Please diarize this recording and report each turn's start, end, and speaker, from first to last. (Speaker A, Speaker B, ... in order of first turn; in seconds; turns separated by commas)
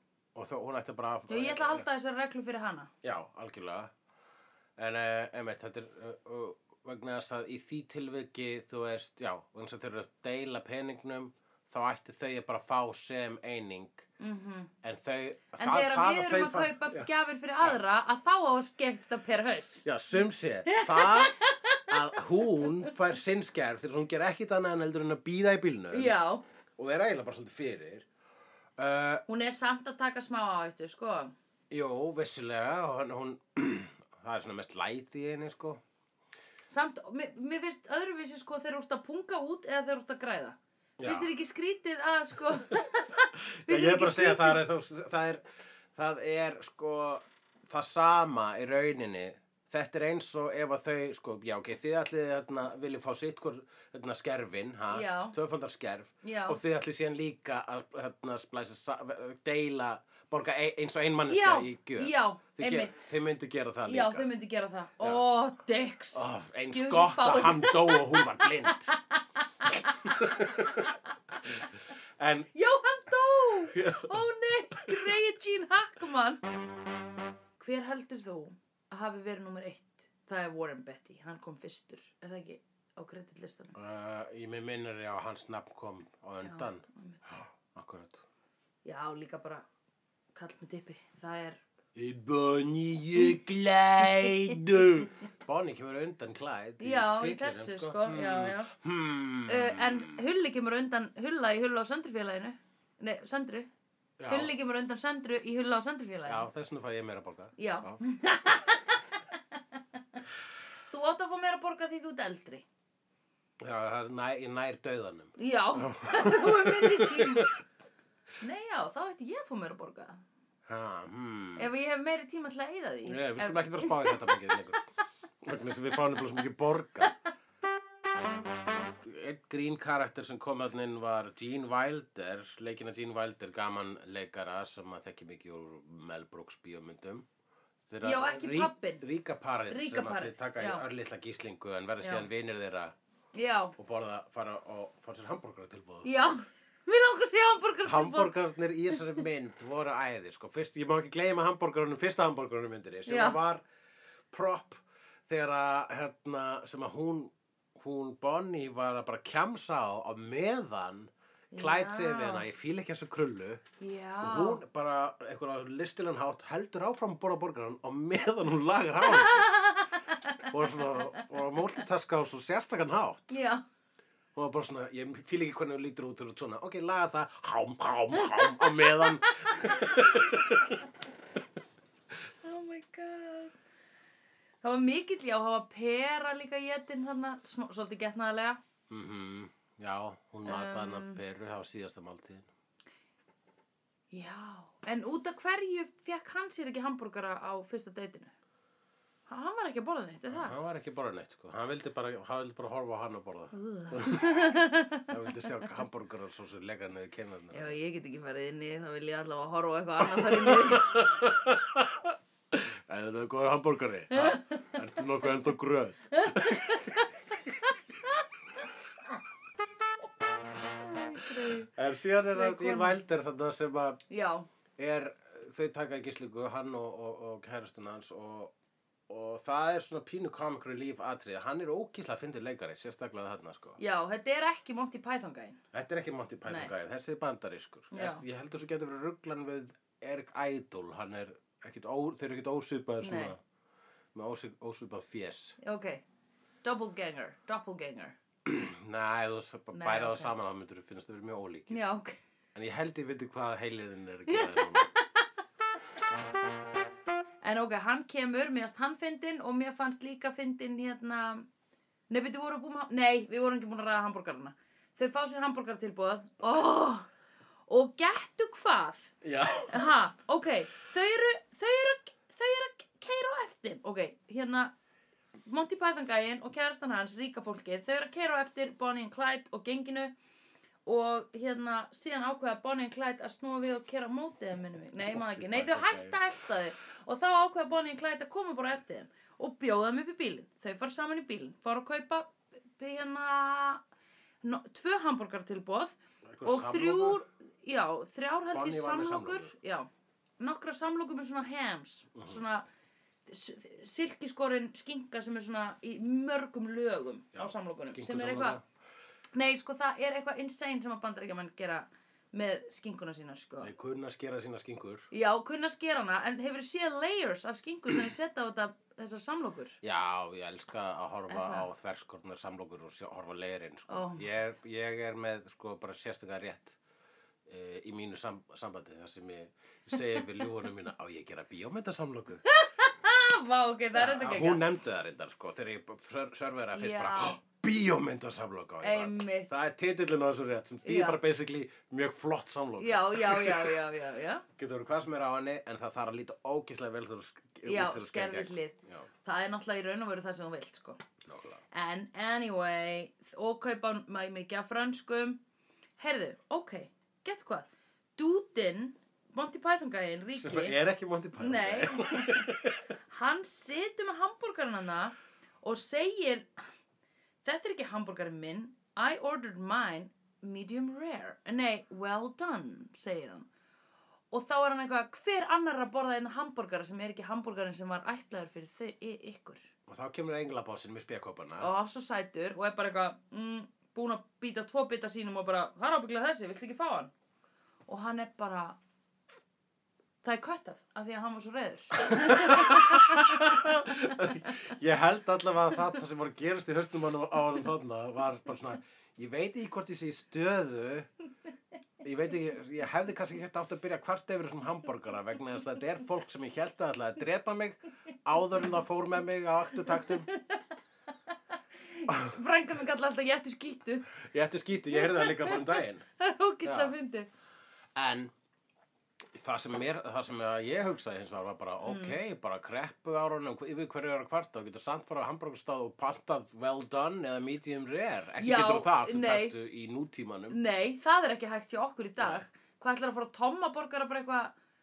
Speaker A: 0.3-1.9, Speaker B: 1.3-2.9, Speaker A: 3.0-3.9, Speaker A: 4.8-14.1, Speaker B: 14.2-14.7, Speaker A: 14.8-17.1, Speaker B: 15.6-19.9, Speaker A: 19.8-26.1, Speaker B: 20.6-22.2, Speaker B: 25.9-26.4, Speaker A: 26.8-28.1, Speaker A: 28.8-29.2, Speaker B: 29.3-31.3, Speaker A: 31.7-35.8, Speaker B: 36.7-44.6, Speaker A: 41.0-41.3, Speaker A: 43.5-45.4, Speaker A: 45.9-64.3, Speaker B: 54.9-55.4, Speaker B: 56.2-56.6, Speaker B: 61.3-63.1, Speaker B: 63.9-71.6, Speaker A: 66.1-68.9, Speaker A: 70.0-70.9, Speaker A: 72.2-72.5, Speaker B: 72.5-76.4, Speaker A: 73.7-74.2, Speaker A: 74.7-75.1, Speaker B: 77.6-83.7, Speaker A: 83.7-88.2, Speaker B: 86.4-87.2, Speaker B: 88.8-89.7, Speaker B: 90.3-91.6, Speaker A: 91.9-100.2, Speaker B: 94.1-94.6, Speaker B: 96.8-98.7, Speaker B: 99.5-103.7, Speaker A: 104.2-104.5, Speaker B: 104.3-106.5, Speaker A: 106.2-108.0, Speaker B: 107.6-110.2, Speaker B: 110.9-112.6, Speaker A: 113.6-117.6, Speaker B: 115.4-117.5, Speaker B: 118.4-120.2, Speaker A: 120.7-121.7, Speaker B: 121.6-124.5, Speaker A: 123.1-124.8, Speaker A: 125.4-127.1, Speaker A: 129.0-137.3, Speaker A: 137.9-142.9, Speaker B: 138.0-139.0, Speaker B: 139.7-140.8, Speaker B: 142.0-142.3, Speaker B: 143.3-143.7, Speaker A: 143.8-146.1, Speaker B: 146.0-148.3, Speaker A: 147.8-153.6, Speaker B: 153.1-153.4, Speaker A: 154.3-163.6, Speaker B: 161.5-162.4, Speaker B: 163.8-164.6, Speaker A: 164.2-169.5, Speaker B: 169.1-171.2, Speaker A: 170.4-173.4, Speaker B: 173.3-173.6, Speaker A: 174.3-180.9, Speaker B: 178.2-180.4, Speaker B: 182.4-183.5, Speaker B: 184.6-188.6, Speaker A: 188.9-192.5, Speaker B: 190.4-191.2, Speaker B: 194.1-198.3, Speaker B: 199.3-200.6, Speaker A: 200.3-207.8, Speaker B: 203.5-205.1, Speaker B: 207.5-211.1, Speaker A: 210.0-216.8, Speaker B: 214.1-214.8, Speaker B: 216.1-217.1, Speaker B: 220.8-221.7, Speaker A: 221.7-224.0, Speaker B: 222.3-223.0, Speaker B: 224.1-224.5, Speaker A: 224.8-228.5, Speaker A: 229.1-233.8, Speaker B: 233.8-235.6, Speaker A: 235.7-243.4, Speaker B: 236.5-236.7, Speaker B: 237.9-238.2, Speaker B: 243.0-243.3, Speaker A: 244.1-245.6, Speaker B: 245.6-246.0, Speaker B: 246.6-248.2, Speaker A: 248.4-251.8, Speaker B: 249.7-250.3, Speaker B: 251.7-252.2, Speaker A: 252.6-254.9, Speaker B: 254.3-255.1, Speaker B: 257.4-261.5, Speaker B: 262.1-267.1, Speaker B: 267.7-269.1, Speaker A: 269.2-269.9, Speaker B: 269.7-274.7, Speaker B: 275.4-280.1, Speaker B: 280.9-293.8, Speaker A: 285.1-286.2, Speaker B: 294.4-302.6, Speaker A: 296.3-297.2, Speaker A: 298.5-299.5, Speaker B: 303.3-308.6, Speaker A: 307.3-308.6, Speaker B: 309.3-313.7, Speaker A: 313.6-315.1, Speaker B: 315.1-319.8, Speaker A: 319.8-326.8, Speaker B: 321.3-321.7, Speaker B: 323.9-324.4, Speaker A: 327.5-332.4, Speaker B: 332.4-334.7, Speaker A: 333.9-343.8, Speaker B: 336.7-337.4, Speaker B: 338.8-339.6, Speaker B: 340.8-341.2, Speaker B: 342.8-344.4, Speaker A: 344.6-349.1, Speaker B: 347.6-351.0, Speaker A: 351.3-351.6, Speaker B: 351.7-355.4, Speaker B: 356.0-360.8, Speaker A: 360.4-362.8, Speaker B: 361.4-362.5, Speaker B: 363.1-366.5, Speaker B: 367.4-373.5, Speaker B: 374.3-379.7, Speaker A: 379.9-381.7, Speaker B: 381.6-387.1, Speaker B: 387.9-388.8, Speaker B: 390.2-394.2, Speaker A: 392.0-401.1, Speaker A: 402.0-410.3, Speaker B: 410.3-410.6, Speaker B: 411.8-414.1, Speaker A: 412.1-412.3, Speaker A: 414.2-416.0, Speaker B: 414.9-417.3, Speaker A: 416.6-416.9, Speaker A: 417.9-418.3, Speaker A: 419.3-430.6, Speaker B: 421.9-422.2, Speaker B: 428.4-429.6, Speaker B: 430.5-434.5, Speaker A: 432.2-432.4